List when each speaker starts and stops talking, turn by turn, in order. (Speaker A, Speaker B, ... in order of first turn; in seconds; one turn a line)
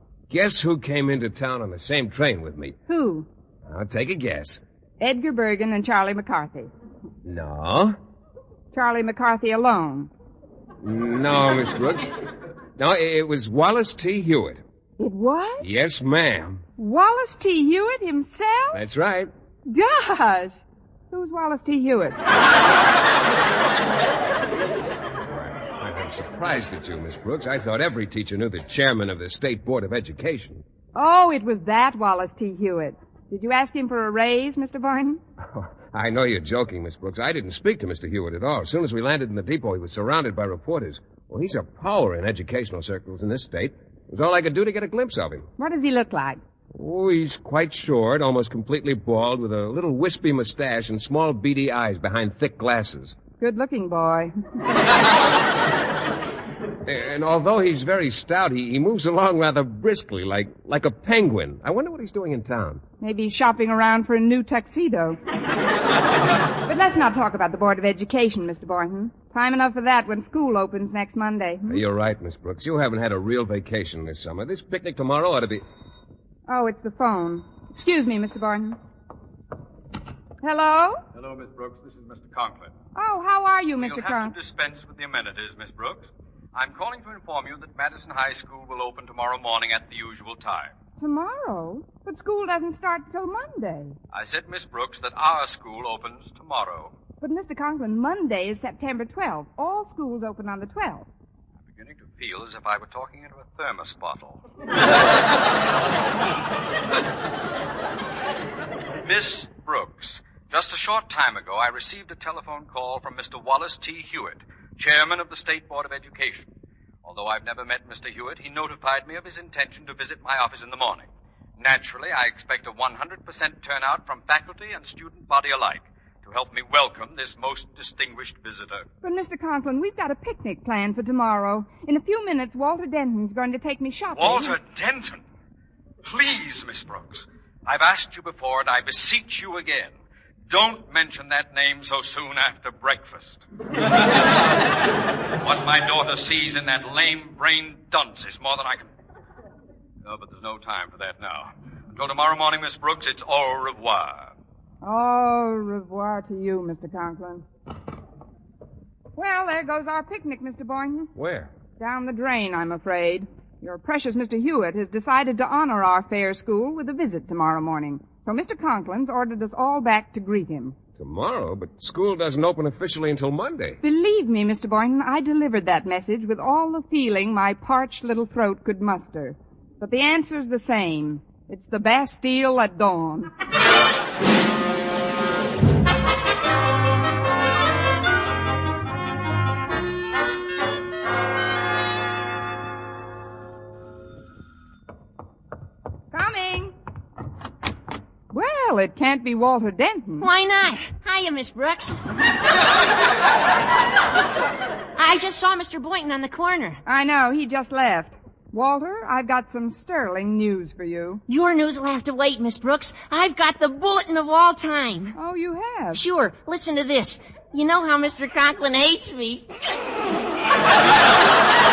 Speaker A: 0.3-2.8
Speaker B: 2.9-3.3
Speaker A: 3.7-4.6
Speaker B: 5.0-6.7
Speaker A: 7.2-8.0
Speaker B: 8.7-10.1
Speaker A: 10.8-12.1
Speaker A: 12.8-14.6
Speaker B: 15.0-15.7
Speaker A: 15.6-16.6
Speaker B: 16.8-18.8
Speaker A: 18.7-19.3
Speaker B: 19.7-20.6
Speaker B: 21.1-22.2
Speaker A: 25.3-30.6
Speaker B: 30.9-35.2
Speaker A: 35.5-45.5
Speaker B: 45.6-46.4
Speaker A: 46.7-53.1
Speaker B: 53.4-54.4
Speaker A: 56.9-62.8
Speaker B: 63.0-65.2
Speaker B: 66.6-71.8
Speaker A: 71.7-75.6
Speaker B: 76.5-78.8
Speaker B: 80.4-81.0
Speaker C: 81.2-82.7
Speaker B: 83.0-84.3
Speaker C: 83.8-90.7
Speaker B: 91.0-94.0
Speaker C: 94.1-96.9
Speaker B: 97.2-101.1
Speaker C: 101.7-104.4
Speaker C: 109.0-116.5
Speaker C: 117.0-121.1
Speaker C: 121.6-128.8
Speaker B: 129.0-134.6
Speaker C: 134.2-135.2
Speaker C: 136.2-139.9
Speaker C: 140.5-143.4
Speaker C: 145.4-148.9
Speaker C: 150.1-154.3
Speaker B: 154.8-157.4
Speaker B: 159.2-161.1
Speaker A: 161.2-161.5
Speaker B: 161.8-170.8
Speaker A: 171.0-173.8
Speaker B: 173.8-183.3
Speaker B: 196.1-196.8
Speaker B: 198.3-200.3
Speaker D: 200.2-202.0
Speaker D: 205.0-206.8
Speaker B: 206.9-211.2
Speaker D: 211.3-215.2
Speaker B: 215.2-216.0
Speaker D: 215.9-219.5